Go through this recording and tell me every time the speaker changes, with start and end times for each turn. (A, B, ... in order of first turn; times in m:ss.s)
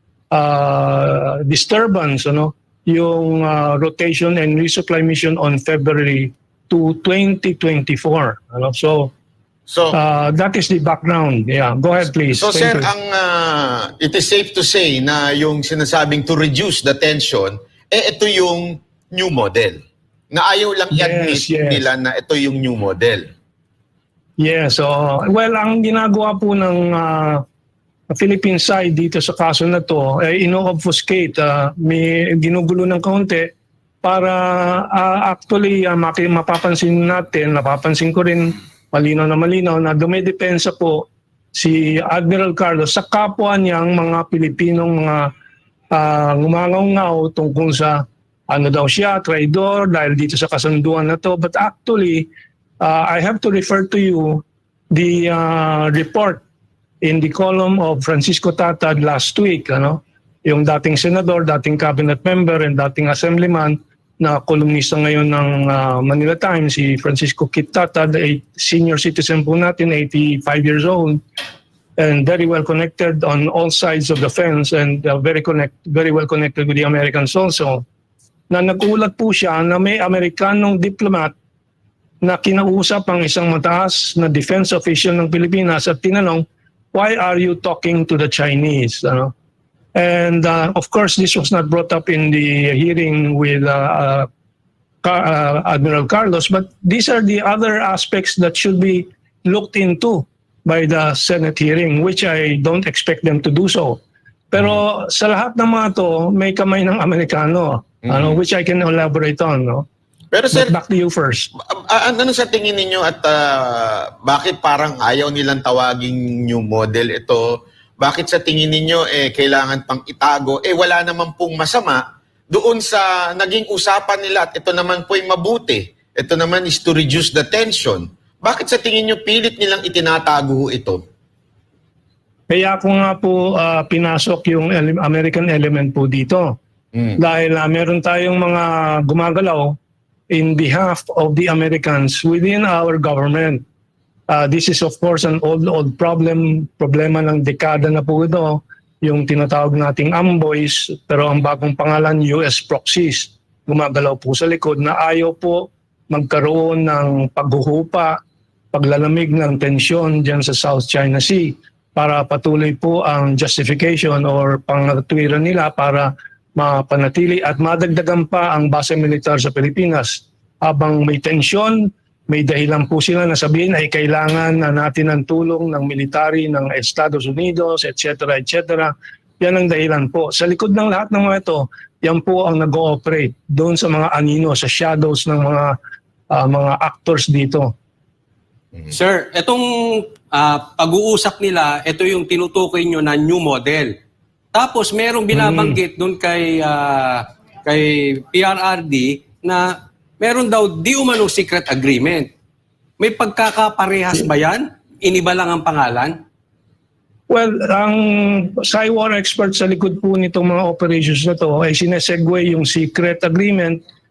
0:00.3-0:09.1 A
0:09.7-0:10.0 B
0:09.9-0:12.9 A
0:12.4-0:23.3 B
0:20.9-0:21.8 A
0:24.4-0:27.4 A
0:28.1-0:33.5 A
0:34.0-0:45.3 A
0:45.9-0:52.3 A
0:52.8-0:56.4 A
0:57.0-1:11.2 A
1:12.0-1:17.8 A
1:18.5-1:21.3 A
1:22.2-1:29.3 A
1:30.0-1:34.3 A
1:35.0-1:49.8 A
1:48.1-1:48.3 B
1:50.3-1:50.7 B
1:50.5-1:51.5 A
1:51.6-2:11.0 B
2:12.5-2:16.6 A
2:17.2-2:19.8 A
2:20.3-2:23.6 A
2:24.3-2:38.2 A
2:38.7-3:05.8 A
3:06.3-3:07.7 A
3:08.9-3:13.9 C
3:14.5-3:22.3 C
3:15.3-3:15.8 A
3:23.0-3:26.2 C
3:27.3-3:33.8 A